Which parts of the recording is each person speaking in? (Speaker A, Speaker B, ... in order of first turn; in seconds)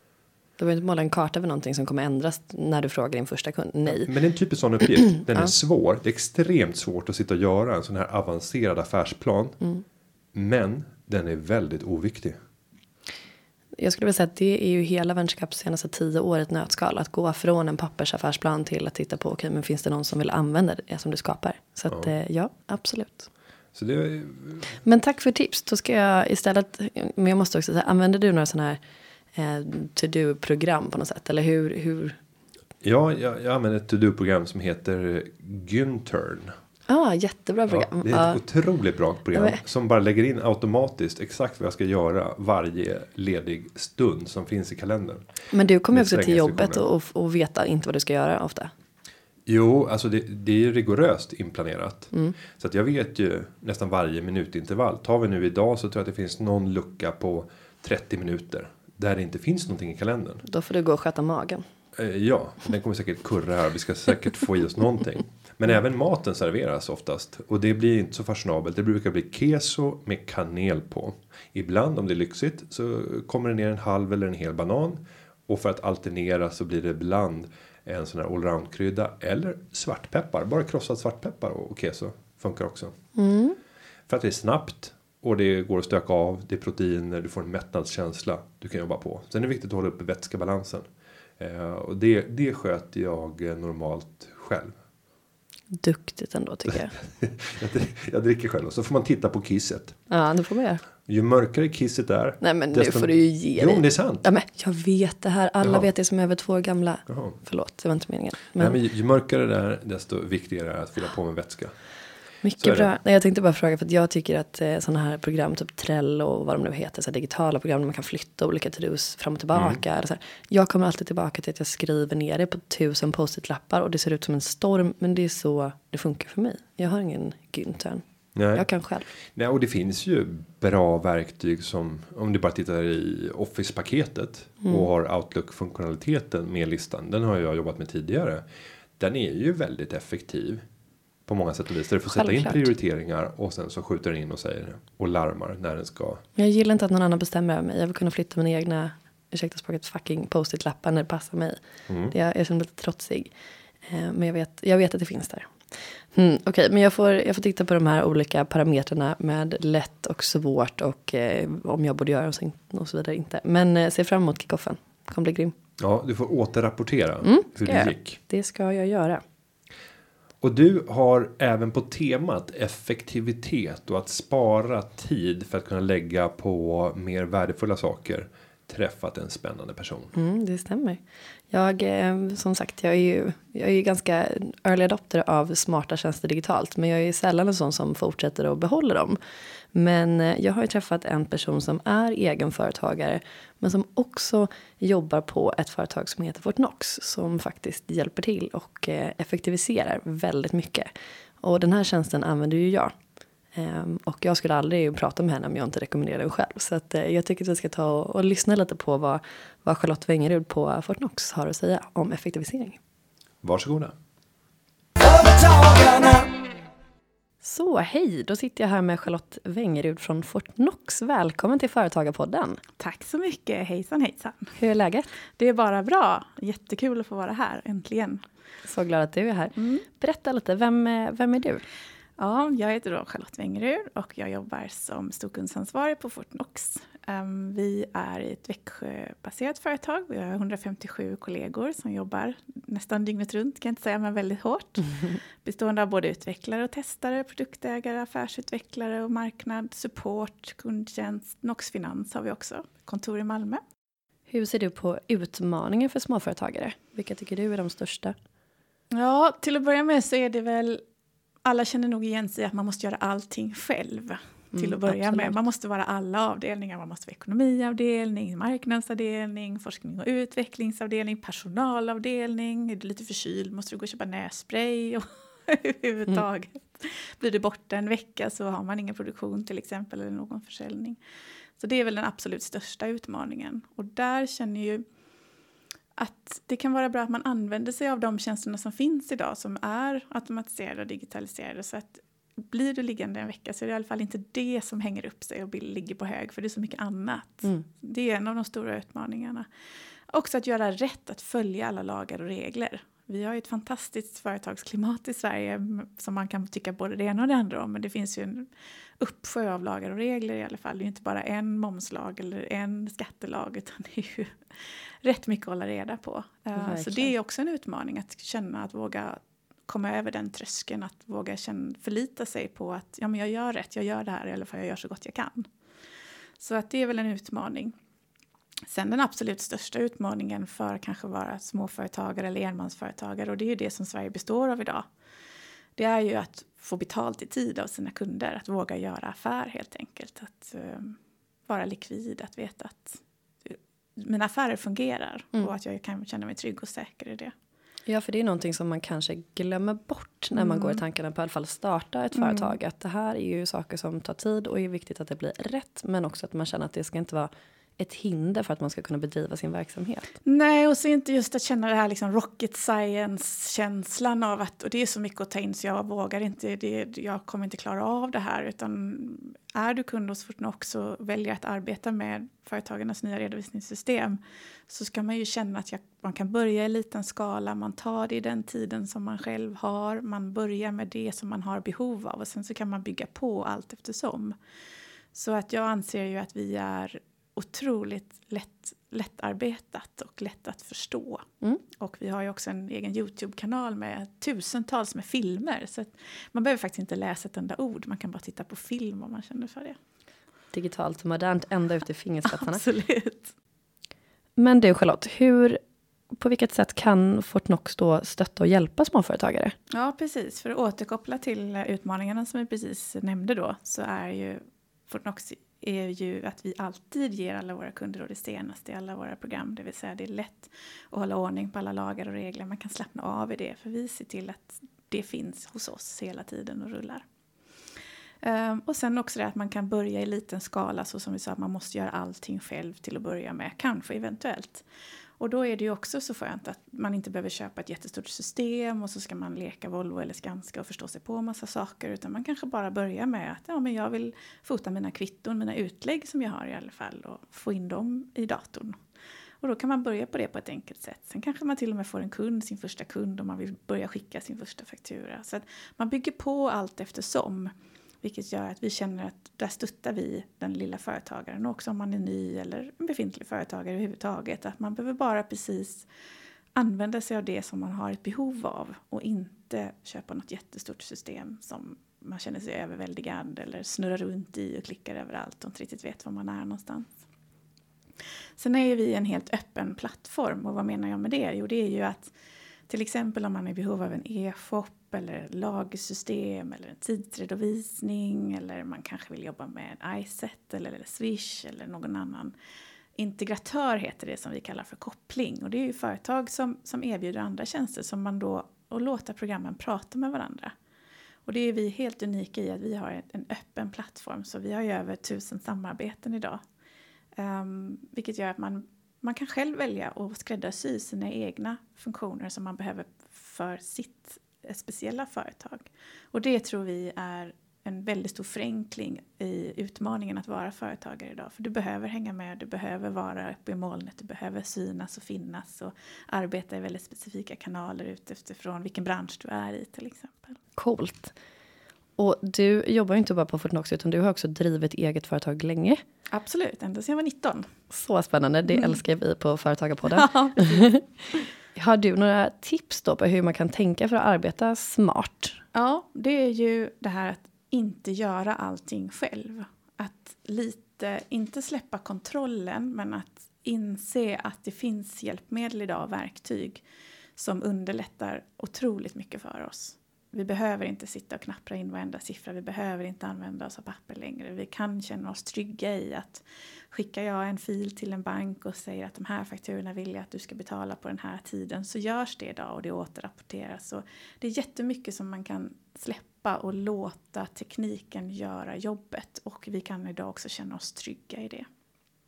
Speaker A: 0.6-4.1, 5.1-5.5, 13.8-23.3, 24.8-28.8, 29.3-32.2, 36.9-38.4, 39.3-39.6, 45.5-48.7, 60.4-61.6, 83.2-83.6, 95.7-96.9, 100.1-100.8, 102.4-108.8, 112.4-128.0, 128.6-129.1, 142.1-142.7, 146.4-153.3, 153.9-165.5, 167.2-169.2, 180.1-189.2, 189.7-200.9, 201.4-202.9, 203.5-212.8, 217.4-222.6, 224.6-225.1, 228.7-231.6, 254.3-258.1, 264.5-265.4, 316.6-317.1, 347.9-360.1, 400.5-402.6, 404.4-405.6, 406.2-409.6, 530.6-531.1, 532.0-535.8, 537.7-540.8, 541.5-545.4
Speaker B: 3.9-9.6, 10.3-12.4, 23.8-24.8, 32.8-36.5, 37.7-45.2, 45.9-46.9, 49.5-60.4, 62.0-82.9, 84.1-90.8, 91.4-94.7, 96.7-100.0, 101.0-104.3, 105.6-105.9, 107.1-107.4, 108.6-111.7, 112.6-112.9, 119.5-119.8, 128.3-128.7, 129.3-138.4, 139.0-140.6, 141.3-146.2, 151.9-152.1, 165.8-168.2, 170.4-180.1, 213.4-213.9
Speaker C: 215.0-216.3, 222.8-224.6, 225.4-228.2, 229.6-229.8, 232.2-253.6, 258.9-260.8, 261.4-281.0, 281.6-284.9, 286.0-299.5, 300.1-325.5, 326.4-327.8, 328.7-334.9, 335.8-341.0, 341.5-347.3, 350.4-350.8, 352.1-352.6, 360.2-384.4, 385.1-391.3, 391.8-399.8, 402.2-403.3, 409.7-427.0, 428.2-434.6, 435.2-448.8, 449.4-465.9, 466.6-476.9, 478.4-482.1, 482.7-492.3, 493.0-500.5, 501.3-506.4, 507.2-530.4, 536.1-537.5, 539.9-540.7, 545.5-556.6, 557.2-581.5